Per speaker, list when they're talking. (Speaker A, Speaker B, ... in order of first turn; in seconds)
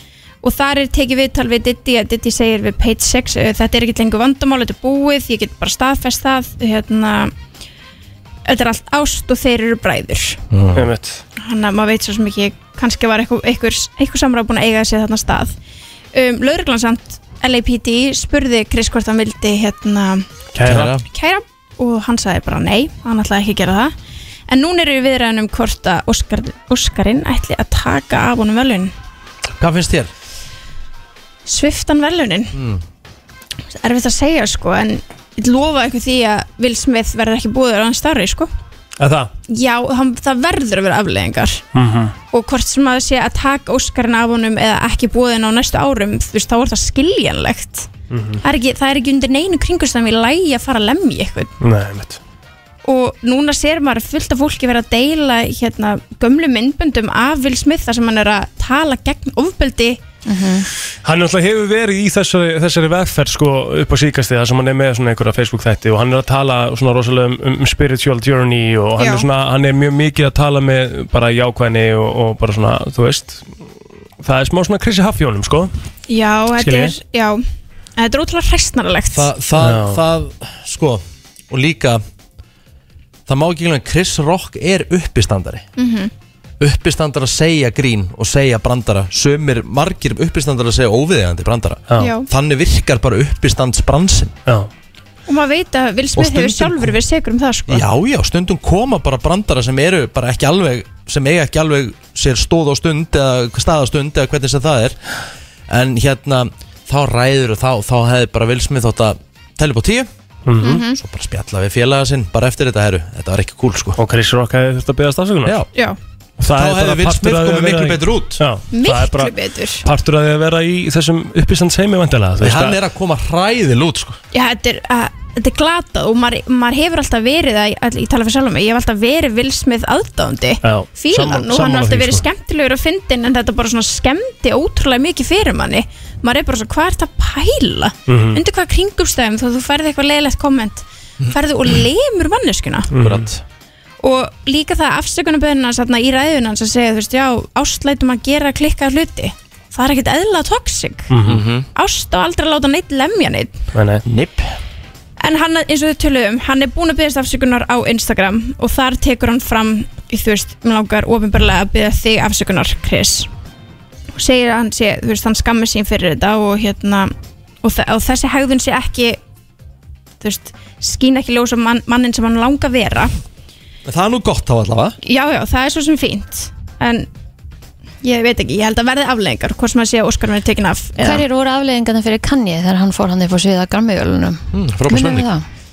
Speaker A: 0.4-7.3, 8.5-10.4, 11.4-15.6, 16.1-20.3, 21.1-23.9, 24.5-28.9, 31.5-32.6, 33.7-38.5, 39.5-41.6, 42.3-47.9, 48.4-51.5, 52.8-60.0, 69.0-69.3, 76.1-77.4, 78.0-79.3, 85.8-86.1, 92.0-92.3, 95.3-97.8, 110.6-111.0, 118.7-119.8, 124.3-142.9, 144.0-151.1, 151.8-153.6, 155.2-163.3, 164.1-169.2, 170.2-173.1, 175.0-177.1, 178.0-181.2
Speaker B: 10.5-10.9, 20.6-21.0, 29.6-30.1, 32.5-32.8, 79.1-82.0, 83.3-85.7, 86.6-94.3, 96.2-97.0, 97.7-105.0, 105.7-110.1, 110.8-114.0, 116.5-118.4, 122.4-124.2, 142.9-143.4, 151.2-151.7, 154.1-154.6, 173.9-175.0, 184.5-185.3
Speaker C: 10.8-11.2, 20.5-20.9, 39.0-39.3, 41.7-42.1, 48.1-48.4, 51.6-52.2, 61.0-73.4, 74.2-75.7, 76.6-77.0, 79.6-80.0, 110.5-110.8, 114.0-115.6, 116.4-122.8, 130.6-132.2, 138.1-138.4, 142.9-143.3, 151.1-151.4, 153.7-154.0
Speaker D: 60.3-60.7, 181.0-185.4